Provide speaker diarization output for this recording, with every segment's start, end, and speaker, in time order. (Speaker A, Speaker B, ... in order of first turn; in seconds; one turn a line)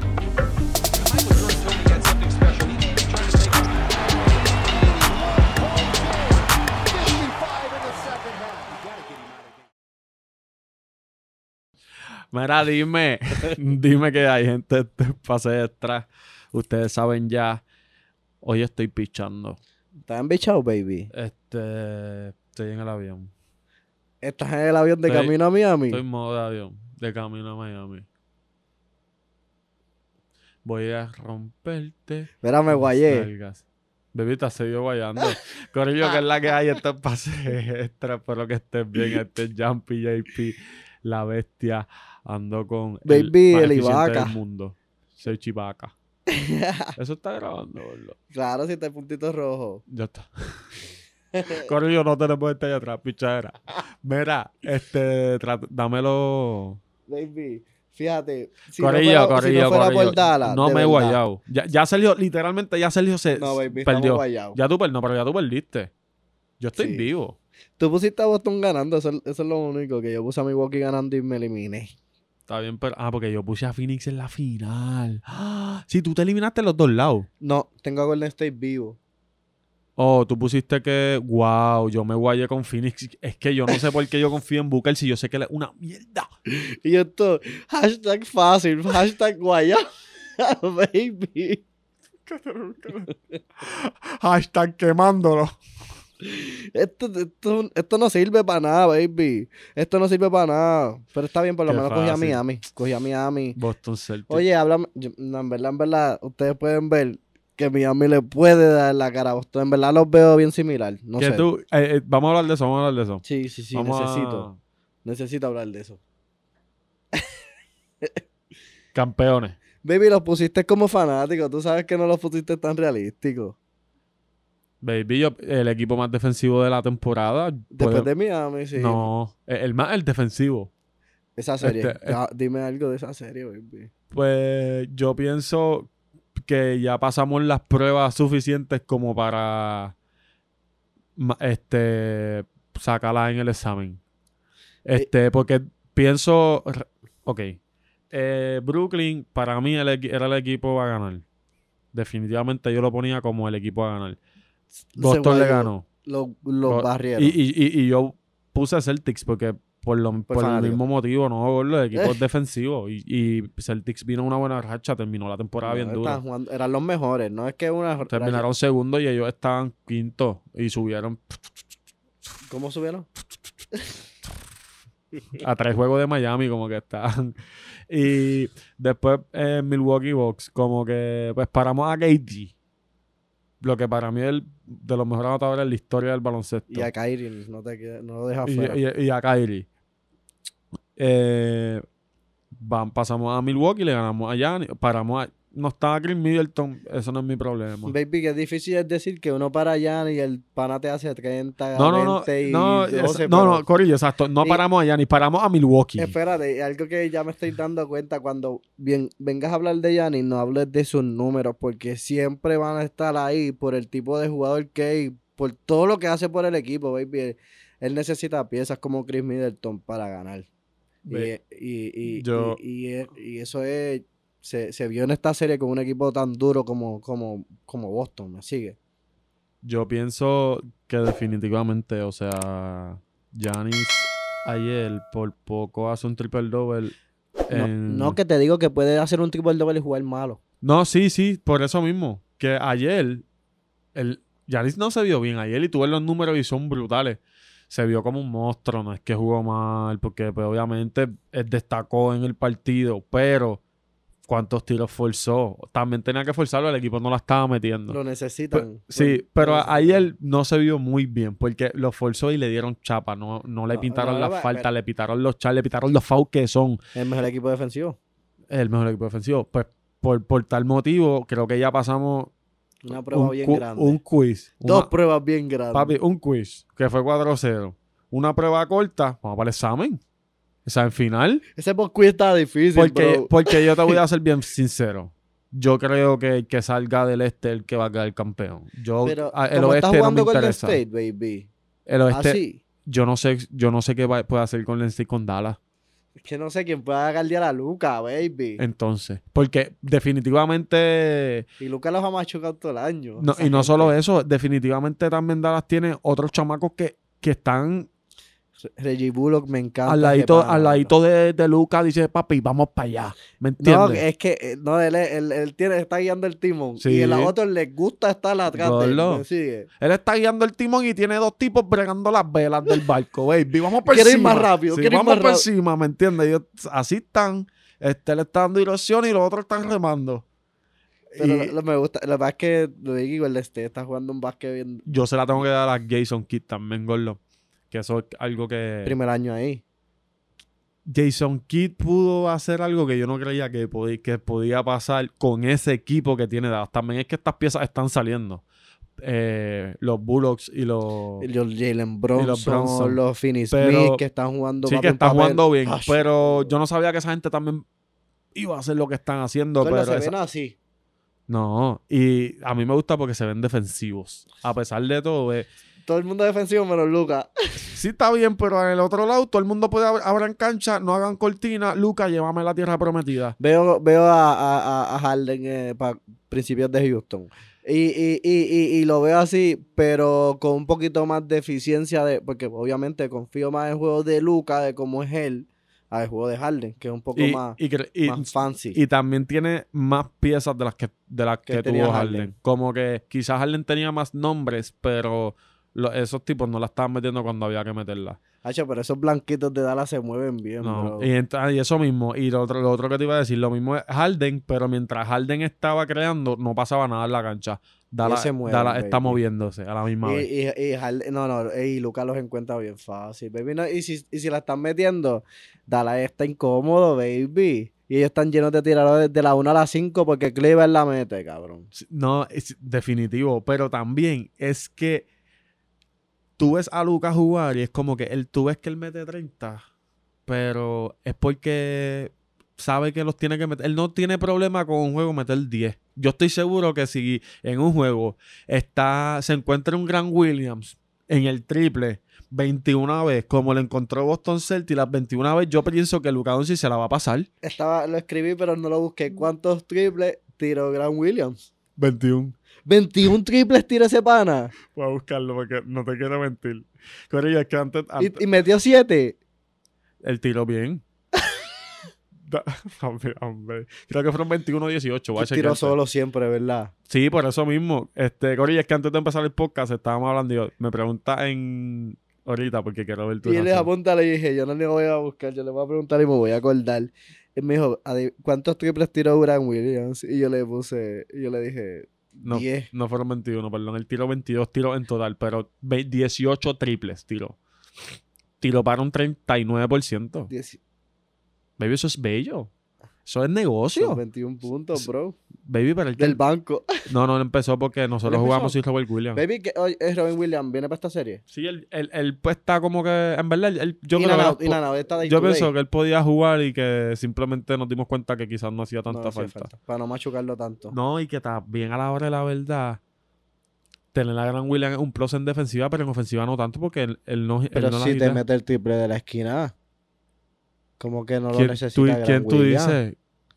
Speaker A: 1.0-3.7
Speaker B: 5.0-8.8
Speaker A: 12.3-17.6
Speaker A: 18.4-19.6
Speaker B: 20.1-21.1
Speaker A: 21.1-23.3
Speaker B: 24.2-26.0
Speaker A: 25.1-25.3
Speaker A: 25.9-28.1
Speaker A: 30.6-45.9
Speaker B: 32.4-33.3
Speaker B: 43.0-44.4
Speaker B: 46.3-47.0
Speaker A: 47.0-48.2
Speaker B: 48.3-49.8
Speaker A: 49.9-50.7
Speaker B: 51.3-51.7
Speaker A: 51.5-56.8
Speaker B: 57.1-61.2
Speaker A: 58.8-65.9
Speaker B: 63.3-64.6
Speaker A: 66.6-67.4
Speaker B: 66.8-67.0
Speaker B: 67.8-71.9
Speaker A: 72.5-77.3
Speaker B: 77.4-79.0
Speaker A: 80.0-86.3
Speaker B: 86.5-91.6
Speaker A: 92.3-95.6
Speaker B: 96.2-103.6
Speaker A: 101.7-102.4
Speaker A: 103.6-104.5
Speaker B: 104.3-111.5
Speaker A: 111.2-113.2
Speaker B: 113.2-114.5
Speaker A: 113.7-114.6
Speaker B: 115.0-116.0
Speaker A: 118.9-119.6
Speaker B: 119.8-123.6
Speaker A: 124.8-128.1
Speaker B: 127.7-129.1
Speaker A: 128.8-130.7
Speaker B: 131.4-133.9
Speaker A: 131.6-132.2
Speaker A: 134.1-139.9
Speaker A: 141.2-144.0
Speaker A: 144.8-147.6
Speaker A: 148.1-151.2
Speaker A: 151.9-154.2
Speaker B: 154.9-157.3
Speaker A: 155.0-155.8
Speaker A: 156.7-166.2
Speaker B: 160.3-160.8
Speaker B: 165.7-168.4
Speaker A: 168.1-171.4
Speaker B: 172.5-173.1
Speaker A: 175.4-182.5
Speaker A: 183.6-186.9
Speaker B: 186.7-188.8
Speaker A: 188.4-189.7
Speaker A: 191.0-191.8
Speaker A: 192.5-197.9
Speaker B: 197.8-203.6
Speaker A: 201.8-206.2
Speaker B: 206.0-220.5
Speaker B: 221.1-228.8
Speaker A: 222.1-222.6
Speaker A: 229.6-236.9
Speaker A: 237.5-238.2
Speaker B: 237.5-240.4
Speaker A: 240.6-243.2
Speaker A: 243.9-253.6
Speaker A: 254.3-258.0
Speaker B: 257.9-260.1
Speaker A: 258.5-266.8
Speaker B: 263.7-264.7
Speaker B: 266.9-268.0
Speaker A: 268.5-272.3
Speaker B: 272.8-274.0
Speaker A: 272.9-274.9
Speaker B: 274.6-275.9
Speaker A: 275.7-280.0
Speaker A: 280.6-281.4
Speaker B: 281.6-284.0
Speaker A: 282.7-290.8
Speaker B: 289.0-291.5
Speaker A: 291.9-295.6
Speaker B: 292.1-292.6
Speaker B: 296.2-298.6
Speaker A: 298.6-301.5
Speaker B: 301.6-303.9
Speaker A: 303.2-307.9
Speaker B: 308.6-310.9
Speaker A: 309.9-314.0
Speaker B: 313.6-319.7
Speaker A: 316.8-317.3
Speaker A: 318.5-319.2
Speaker A: 319.8-330.2
Speaker B: 323.9-325.4
Speaker A: 331.1-331.5
Speaker B: 331.2-335.4
Speaker A: 334.9-338.9
Speaker B: 338.8-339.6
Speaker A: 340.9-348.4
Speaker A: 349.0-351.3
Speaker B: 351.2-356.6
Speaker A: 352.1-353.0
Speaker A: 353.5-354.0
Speaker A: 354.6-357.6
Speaker A: 358.3-360.1
Speaker B: 359.6-360.6
Speaker A: 361.3-365.5
Speaker B: 365.8-367.3
Speaker A: 367.6-373.4
Speaker B: 373.4-388.8
Speaker A: 387.1-398.2
Speaker B: 391.5-392.3
Speaker B: 398.4-401.1
Speaker A: 400.6-410.3
Speaker B: 408.0-409.2
Speaker B: 410.0-421.7
Speaker A: 421.7-425.1
Speaker A: 426.4-429.6
Speaker A: 430.3-447.3
Speaker B: 447.4-451.4
Speaker A: 451.8-452.4
Speaker B: 452.6-454.5
Speaker A: 454.7-458.2
Speaker B: 458.0-459.2
Speaker A: 460.0-460.8
Speaker B: 461.2-461.4
Speaker A: 462.2-465.8
Speaker B: 465.1-466.7
Speaker A: 466.9-473.7
Speaker B: 473.2-482.7
Speaker A: 482.2-487.4
Speaker A: 488.4-490.3
Speaker B: 490.3-490.6
Speaker A: 491.6-492.5
Speaker A: 493.1-494.0
Speaker B: 493.7-495.1
Speaker A: 495.4-496.2
Speaker B: 496.0-496.8
Speaker A: 496.9-499.2
Speaker B: 498.0-498.6
Speaker B: 499.1-501.2
Speaker A: 501.3-509.5
Speaker B: 503.9-505.5
Speaker B: 508.9-510.7
Speaker A: 510.7-512.8
Speaker A: 513.9-518.2
Speaker B: 517.5-519.5
Speaker B: 520.8-522.8
Speaker A: 521.3-523.0